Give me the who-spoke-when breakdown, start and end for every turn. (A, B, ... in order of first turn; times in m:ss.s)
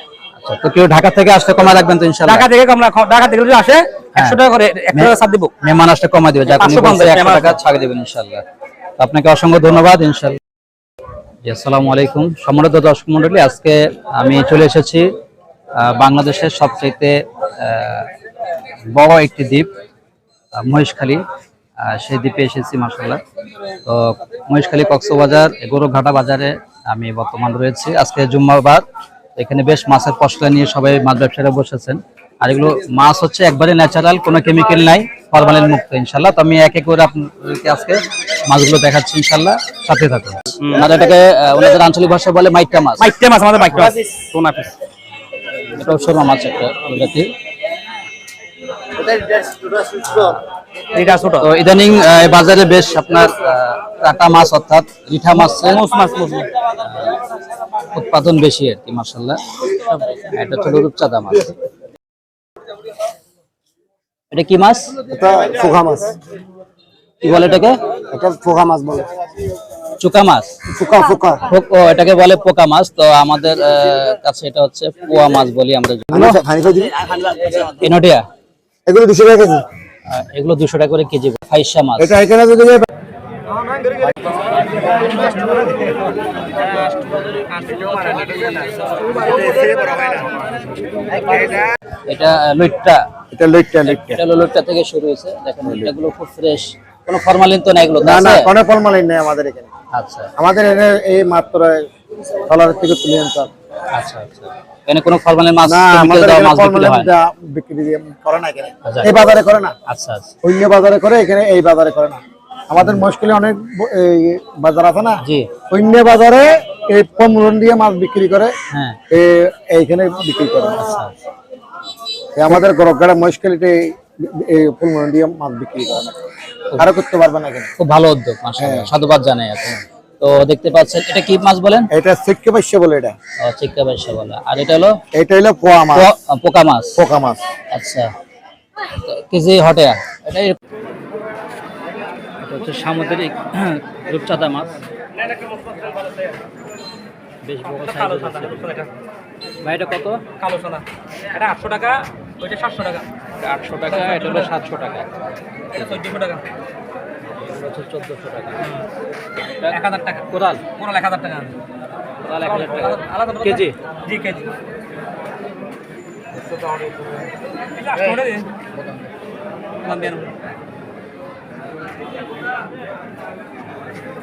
0:00.4-0:02.5 A
0:02.3-0:05.5 B
0:04.9-0:08.4 A
0:06.6-0:07.6 B
0:09.0-0:10.4 A
0:11.4-0:15.1 A
0:15.8-0:18.1 A
0:18.9-0:19.7 A
0:20.6-0:21.2 A
0:21.9-0:23.2 A
0:23.8-0:28.8 A
0:29.4-0:43.1 A
0:40.6-0:40.9 B
0:43.0-0:44.7 B
0:45.7-0:47.3 A
0:49.1-0:49.6 C
0:50.0-0:50.4 A
0:50.9-0:51.5 B
0:51.4-0:55.8 A
0:55.4-0:56.5 B
0:56.8-0:57.1 A
0:57.9-0:59.4 A
1:00.2-1:01.5 A
1:04.3-1:05.0 A
1:05.1-1:06.2 C
1:07.2-1:07.8 A
1:08.1-1:09.1 C
1:10.0-1:10.5 A
1:10.7-1:11.4 C
1:11.5-1:16.4 A
1:16.1-1:17.6 C
1:17.6-1:18.2 A
1:18.9-1:19.7 C
1:20.1-1:22.2 A
1:22.0-1:22.9 C
1:25.2-1:25.5 C
1:26.7-1:29.0 B
1:29.2-1:30.4 C
1:31.2-1:31.6 C
1:32.1-1:33.0 A
1:33.3-1:34.2 C
1:33.8-1:38.5 A
1:35.6-1:35.9 C
1:38.0-1:39.7 C
1:39.9-1:40.3 A
1:40.4-1:41.9 C
1:42.4-1:43.5 C
1:43.9-1:47.1 A
1:45.6-1:49.8 C
1:48.8-1:49.1 A
1:49.9-1:50.3 A
1:50.4-1:58.5 C
1:55.2-1:55.5 A
1:58.7-1:59.0 A
1:59.1-2:00.8 C
2:00.8-2:01.1 A
2:02.4-2:06.2 C
2:06.8-2:07.7 C
2:07.8-2:11.9 A
2:08.6-2:08.9 C
2:11.9-2:13.2 C
2:13.4-2:15.0 A
2:15.1-2:16.1 C
2:15.9-2:17.0 A
2:17.0-2:17.4 C
2:17.7-2:18.1 A
2:19.0-2:20.6 A
2:22.4-2:24.8 A
2:25.7-2:26.0 B
2:27.4-2:28.8 A
2:27.8-2:28.9 B
2:29.6-2:30.2 A
2:30.3-2:33.1 B
2:33.4-2:35.1 A
2:33.9-2:34.5 B
2:35.7-2:36.0 A
2:35.8-2:36.4 B
2:37.3-2:38.7 A
2:39.7-2:41.6 B
2:40.3-2:40.6 A
2:42.2-2:43.7 A
2:42.4-2:44.5 B
2:46.6-2:47.0 C
2:47.8-2:48.5 B
2:49.8-2:50.3 B